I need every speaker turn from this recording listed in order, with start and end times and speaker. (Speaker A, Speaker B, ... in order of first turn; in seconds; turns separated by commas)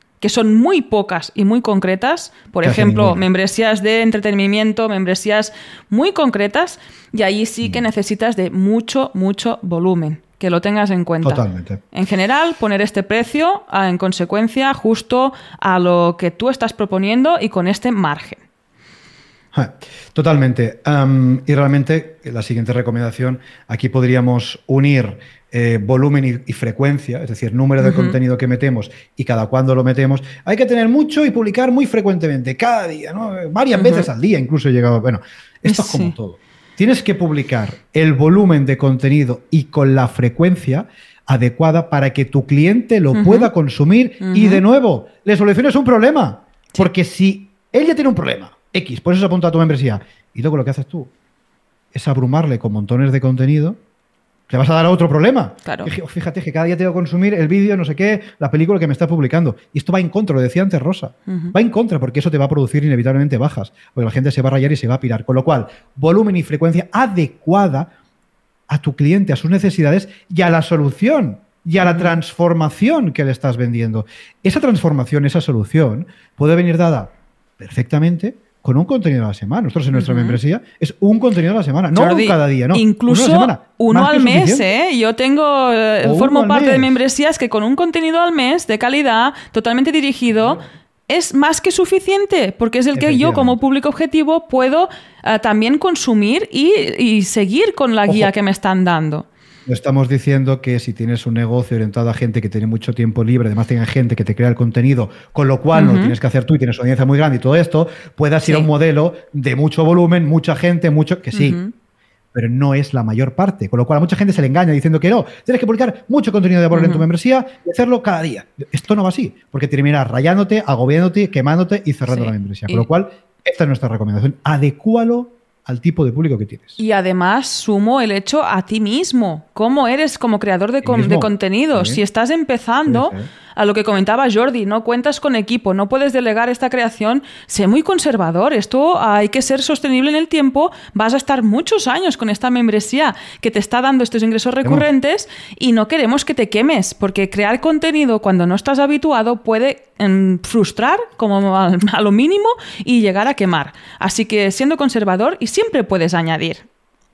Speaker A: 0.2-18.4, Speaker B: 2.6-3.2, Speaker B: 11.2-11.8, Speaker B: 19.5-51.1, Speaker A: 27.8-28.1, Speaker A: 33.8-34.1, Speaker A: 35.6-36.1, Speaker A: 43.1-43.5, Speaker A: 44.2-44.6, Speaker B: 51.9-53.8, Speaker B: 54.5-67.9, Speaker A: 55.6-55.9, Speaker A: 61.3-61.5, Speaker B: 68.7-84.7, Speaker A: 71.8-72.2, Speaker A: 79.9-80.4, Speaker A: 81.9-99.2, Speaker B: 86.0-87.0, Speaker B: 90.4-90.7, Speaker B: 92.9-93.6, Speaker B: 99.7-111.6, Speaker A: 105.7-106.1, Speaker A: 111.3-111.7, Speaker B: 112.3-126.8, Speaker A: 116.7-117.0, Speaker A: 122.1-122.8, Speaker A: 126.8-156.7, Speaker B: 130.8-132.0, Speaker B: 132.8-133.3